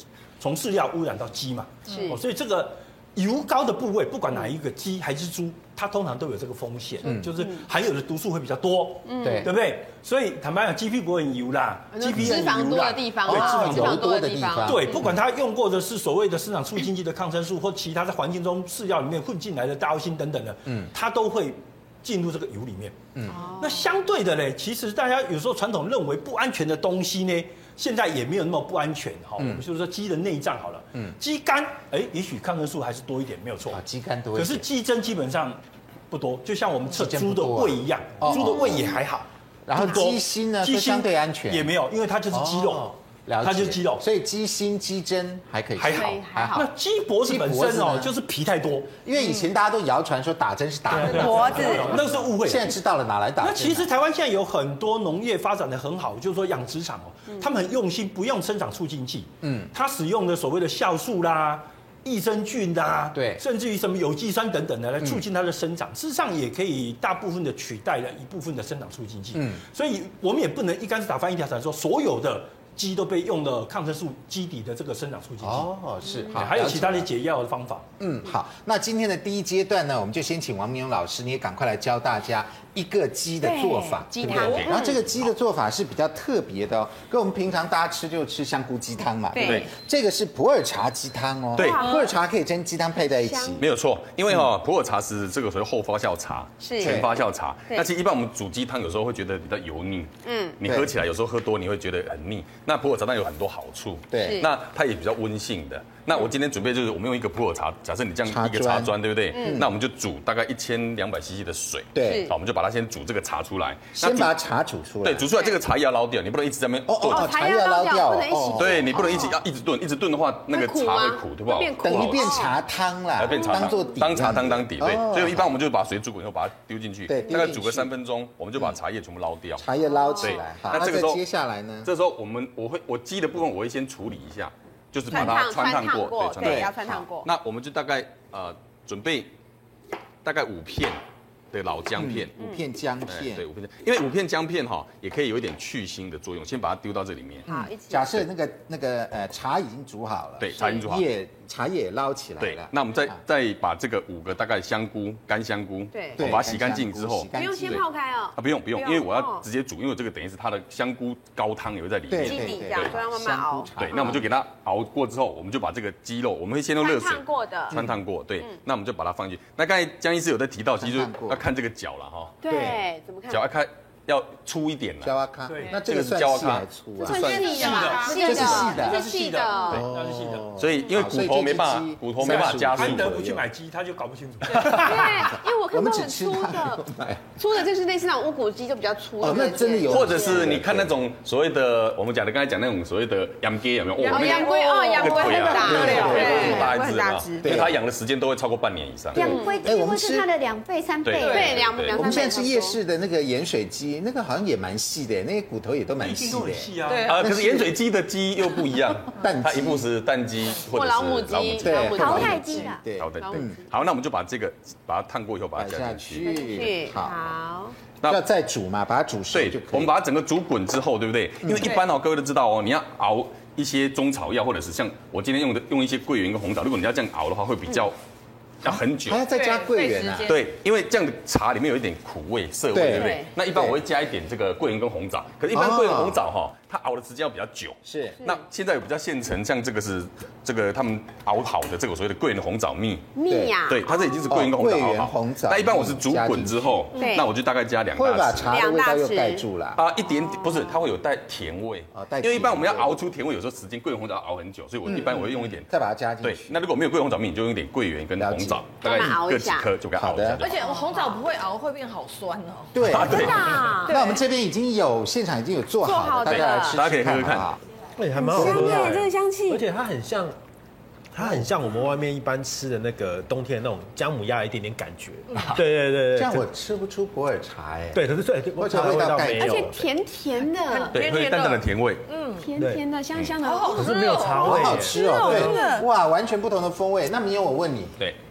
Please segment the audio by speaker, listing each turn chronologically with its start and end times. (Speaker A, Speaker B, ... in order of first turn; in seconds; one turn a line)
Speaker A: 0.4-14.0
Speaker B: 1.9-2.2
Speaker C: 7.0-7.3
Speaker B: 7.2-7.7
Speaker B: 9.0-9.5
Speaker C: 9.2-9.5
Speaker B: 11.9-15.1
Speaker C: 12.1-12.7
Speaker C: 13.2-15.2
Speaker A: 14.6-22.9
Speaker C: 23.1-23.4
Speaker B: 23.3-23.9
Speaker A: 23.6-33.8
Speaker C: 29.4-29.6
Speaker C: 33.7-34.6
Speaker A: 34.3-44.0
Speaker C: 36.9-38.9
Speaker C: 39.6-41.7
Speaker C: 42.3-46.7
Speaker A: 45.8-49.0
Speaker B: 45.9-46.7
Speaker C: 47.2-48.1
Speaker C: 49.0-53.9
Speaker A: 50.9-52.8
Speaker B: 51.1-52.0
Speaker A: 53.4-75.7
Speaker C: 59.4-59.7
Speaker C: 63.1-63.4
Speaker C: 69.3-69.6
Speaker C: 75.4-77.1
Speaker B: 76.1-76.3
Speaker A: 76.3-77.8
Speaker C: 78.0-93.6
Speaker B: 83.4-85.0
Speaker D: 84.2-85.0
Speaker B: 89.3-89.7
Speaker D: 89.4-89.7
Speaker D: 91.5-91.9
Speaker B: 91.6-92.1
Speaker B: 93.1-93.6
Speaker D: 93.6-114.3
Speaker B: 96.6-97.0
Speaker C: 96.8-97.1
Speaker B: 100.2-100.6
Speaker C: 100.6-100.9
Speaker C: 104.1-104.4
Speaker B: 104.1-104.5
Speaker C: 108.2-109.7
Speaker B: 109.3-109.7
Speaker C: 111.9-112.3
Speaker B: 112.0-112.3
Speaker C: 114.0-115.3
Speaker D: 115.0-117.3
Speaker C: 116.9-119.3
Speaker B: 117.0-119.4
Speaker D: 118.6-122.5
Speaker B: 120.5-122.5
Speaker C: 121.8-125.5
Speaker D: 123.2-129.6
Speaker B: 123.3-123.9
Speaker C: 127.1-127.9
Speaker C: 129.6-131.9
Speaker B: 129.8-130.6
Speaker D: 130.2-131.2
Speaker D: 131.8-139.3
Speaker B: 135.1-137.3
Speaker C: 136.4-136.7
Speaker D: 140.2-141.0
Speaker D: 141.5-142.3
Speaker C: 142.0-143.4
Speaker B: 142.4-142.6
Speaker D: 143.1-147.5
Speaker B: 147.5-148.1
Speaker C: 147.5-153.2
Speaker D: 150.4-151.0
Speaker B: 150.6-150.8
Speaker D: 152.4-157.8
Speaker B: 155.9-156.3
Speaker C: 156.2-157.8
Speaker B: 157.3-159.4
Speaker D: 158.3-163.0
Speaker C: 162.1-164.2
Speaker B: 162.1-164.2
Speaker D: 163.8-172.4
Speaker B: 166.8-167.8
Speaker C: 167.7-168.0
Speaker C: 170.8-171.4
Speaker B: 172.4-173.5
Speaker C: 172.4-172.8
Speaker D: 173.3-175.1
Speaker C: 175.0-177.3
Speaker A: 175.5-175.8
Speaker D: 175.9-177.9
Speaker B: 177.0-179.8
Speaker E: 177.2-178.3
Speaker A: 177.6-180.6
Speaker C: 178.0-179.1
Speaker C: 179.7-183.4
Speaker D: 180.6-183.2
Speaker A: 182.2-185.1
Speaker C: 184.6-187.3
Speaker B: 184.6-186.8
Speaker B: 187.3-190.5
Speaker C: 189.2-190.9
Speaker D: 189.9-199.4
Speaker E: 194.0-196.7
Speaker B: 194.0-197.6
Speaker C: 195.5-196.7
Speaker C: 197.4-197.8
Speaker F: 199.1-201.6
Speaker B: 199.2-199.6
Speaker C: 199.6-200.3
Speaker D: 201.0-202.2
Speaker B: 201.2-202.8
Speaker E: 201.2-201.6
Speaker C: 201.9-207.7
Speaker A: 206.0-207.3
Speaker E: 206.8-207.2
Speaker D: 207.1-212.4
Speaker C: 209.2-209.9
Speaker B: 210.7-213.6
Speaker C: 211.6-213.6
Speaker F: 211.9-212.8
Speaker D: 212.9-216.2
Speaker C: 215.6-217.3
Speaker B: 216.2-217.8
Speaker C: 218.1-219.9
Speaker D: 219.3-227.9
Speaker C: 221.4-221.8
Speaker D: 228.6-229.2
Speaker C: 228.6-230.3
Speaker E: 229.3-230.3
Speaker B: 229.8-230.1
Speaker D: 230.3-243.1
Speaker C: 232.7-233.8
Speaker B: 232.9-233.3
Speaker C: 235.5-236.2
Speaker C: 237.8-238.2
Speaker B: 243.1-244.3
Speaker C: 243.2-243.6
Speaker D: 243.7-248.5
Speaker C: 244.3-246.9
Speaker B: 246.9-247.3
Speaker C: 247.9-249.8
Speaker B: 248.4-249.4
Speaker D: 249.8-255.7
Speaker B: 250.2-250.8
Speaker C: 251.9-253.0
Speaker C: 254.9-256.5
Speaker D: 256.2-260.5
Speaker C: 258.2-258.6
Speaker B: 258.8-259.7
Speaker C: 259.9-260.4
Speaker E: 260.4-262.8
Speaker B: 260.5-261.1
Speaker C: 262.7-267.6
Speaker D: 262.8-263.8
Speaker B: 263.0-264.2
Speaker B: 265.8-266.8
Speaker D: 266.3-267.5
Speaker G: 268.0-270.4
Speaker B: 268.1-269.6
Speaker C: 268.3-269.0
Speaker G: 271.1-276.5
Speaker C: 271.2-271.5
Speaker E: 275.3-275.6
Speaker C: 276.1-278.0
Speaker G: 277.9-279.7
Speaker C: 278.5-279.9
Speaker B: 279.3-281.0
Speaker E: 280.5-282.5
Speaker D: 280.9-282.0
Speaker B: 282.4-285.8
Speaker G: 282.6-282.8
Speaker E: 283.4-285.8
Speaker G: 283.8-285.5
Speaker C: 284.4-288.0